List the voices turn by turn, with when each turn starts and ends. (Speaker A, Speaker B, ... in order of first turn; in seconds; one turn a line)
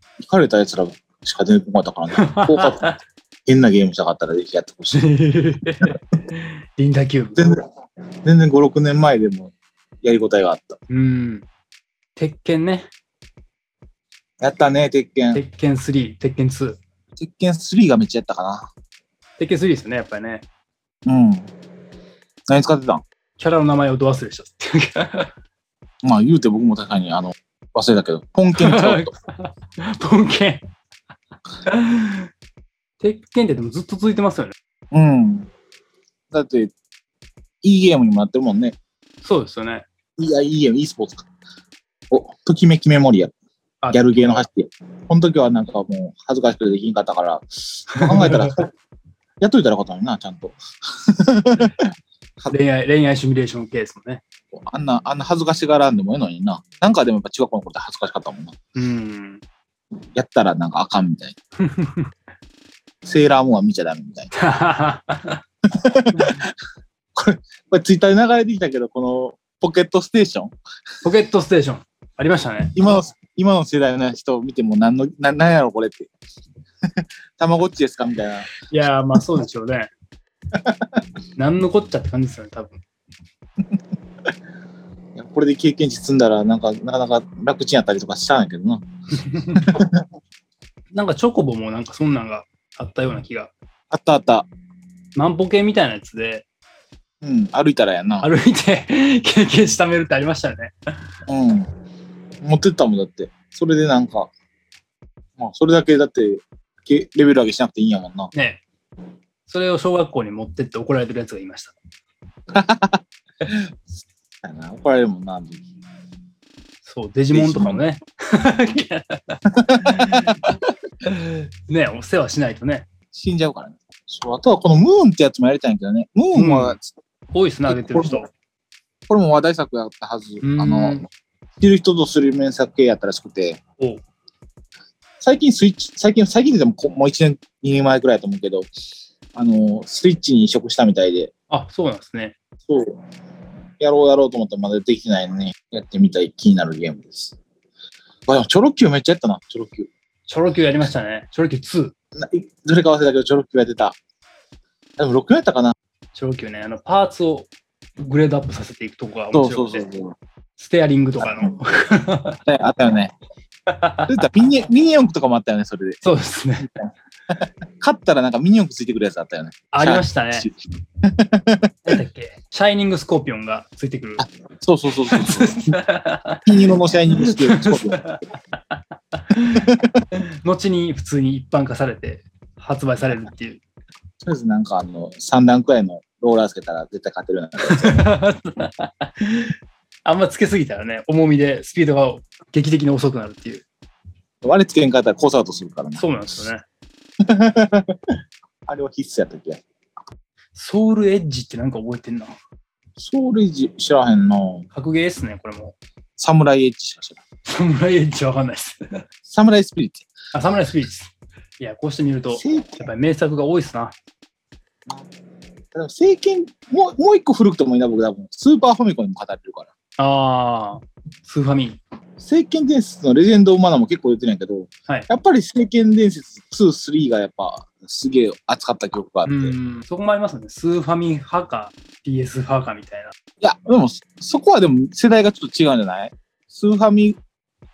Speaker A: 0.2-5.1
Speaker B: 2.1-3.0
Speaker B: 4.9-7.6
Speaker A: 7.3-7.6
Speaker A: 8.2-9.5
Speaker A: 10.0-10.8
Speaker B: 10.9-11.4
Speaker B: 12.2-12.9
Speaker A: 14.4-15.4
Speaker B: 15.3-16.8
Speaker A: 17.2-18.7
Speaker B: 19.4-20.4
Speaker A: 21.1-21.5
Speaker A: 22.5-23.0
Speaker B: 23.4-25.3
Speaker A: 26.0-29.1
Speaker B: 28.6-30.6
Speaker B: 31.7-32.2
Speaker B: 33.0-34.5
Speaker A: 34.9-35.5
Speaker A: 36.3-36.7
Speaker A: 37.6-38.8
Speaker B: 39.2-39.9
Speaker A: 40.2-41.3
Speaker A: 42.1-43.3
Speaker B: 43.8-44.5
Speaker A: 43.9-48.6
Speaker B: 48.0-48.5
Speaker A: 49.4-51.8
Speaker B: 52.5-54.2
Speaker A: 54.5-58.5
Speaker B: 58.7-59.4
Speaker A: 60.1-61.4
Speaker B: 61.6-62.1
Speaker A: 63.0-64.3
Speaker B: 64.3-65.4
Speaker A: 65.7-66.5
Speaker A: 67.1-70.5
Speaker B: 71.0-72.7
Speaker A: 72.7-76.1
Speaker A: 77.4-78.5
Speaker B: 78.7-79.9
Speaker A: 80.5-80.9
Speaker B: 81.3-82.8
Speaker A: 85.2-88.8
Speaker B: 89.2-89.7
Speaker A: 89.5-89.9
Speaker B: 90.9-93.5
Speaker A: 93.9-94.5
Speaker B: 95.2-96.4
Speaker A: 97.2-98.3
Speaker B: 98.2-100.7
Speaker A: 101.3-101.7
Speaker A: 102.4-104.3
Speaker A: 105.4-108.3
Speaker B: 108.3-108.6
Speaker B: 109.5-111.7
Speaker A: 112.5-113.5
Speaker A: 114.4-115.6
Speaker B: 116.8-120.5
Speaker A: 117.3-117.8
Speaker A: 119.7-120.5
Speaker B: 121.0-122.9
Speaker A: 123.1-126.9
Speaker B: 126.3-126.8
Speaker B: 127.3-128.3
Speaker A: 127.7-128.2
Speaker A: 129.1-131.0
Speaker B: 130.4-131.0
Speaker A: 131.6-133.6
Speaker A: 135.2-138.7
Speaker A: 139.3-141.3
Speaker B: 141.5-142.3
Speaker A: 142.7-142.9
Speaker A: 143.8-147.3
Speaker A: 148.3-149.9
Speaker B: 150.3-151.9
Speaker A: 152.2-154.0
Speaker A: 155.0-155.7
Speaker B: 156.1-159.8
Speaker A: 159.3-160.2
Speaker B: 160.6-162.4
Speaker A: 161.2-161.5
Speaker A: 162.4-163.1
Speaker B: 163.7-164.1
Speaker A: 164.1-166.0
Speaker B: 166.0-166.7
Speaker A: 166.8-170.5
Speaker B: 169.7-170.5
Speaker A: 171.0-171.7
Speaker B: 171.8-174.2
Speaker A: 174.2-175.7
Speaker B: 175.0-176.4
Speaker A: 176.4-178.0
Speaker B: 177.2-178.2
Speaker B: 179.3-179.7
Speaker A: 179.5-179.9
Speaker B: 180.2-183.6
Speaker A: 184.2-188.0
Speaker B: 187.7-189.5
Speaker B: 190.0-193.6
Speaker A: 194.4-196.5
Speaker B: 195.9-196.6
Speaker A: 197.2-197.9
Speaker A: 198.7-199.6
Speaker B: 200.5-202.3
Speaker A: 203.0-204.7
Speaker B: 204.7-205.8
Speaker A: 206.2-207.2
Speaker B: 207.5-209.0
Speaker A: 209.3-210.1
Speaker B: 210.3-213.9
Speaker A: 212.3-212.9
Speaker A: 215.7-219.7
Speaker B: 220.0-221.8
Speaker A: 222.2-229.6
Speaker B: 229.2-233.1
Speaker A: 233.4-237.2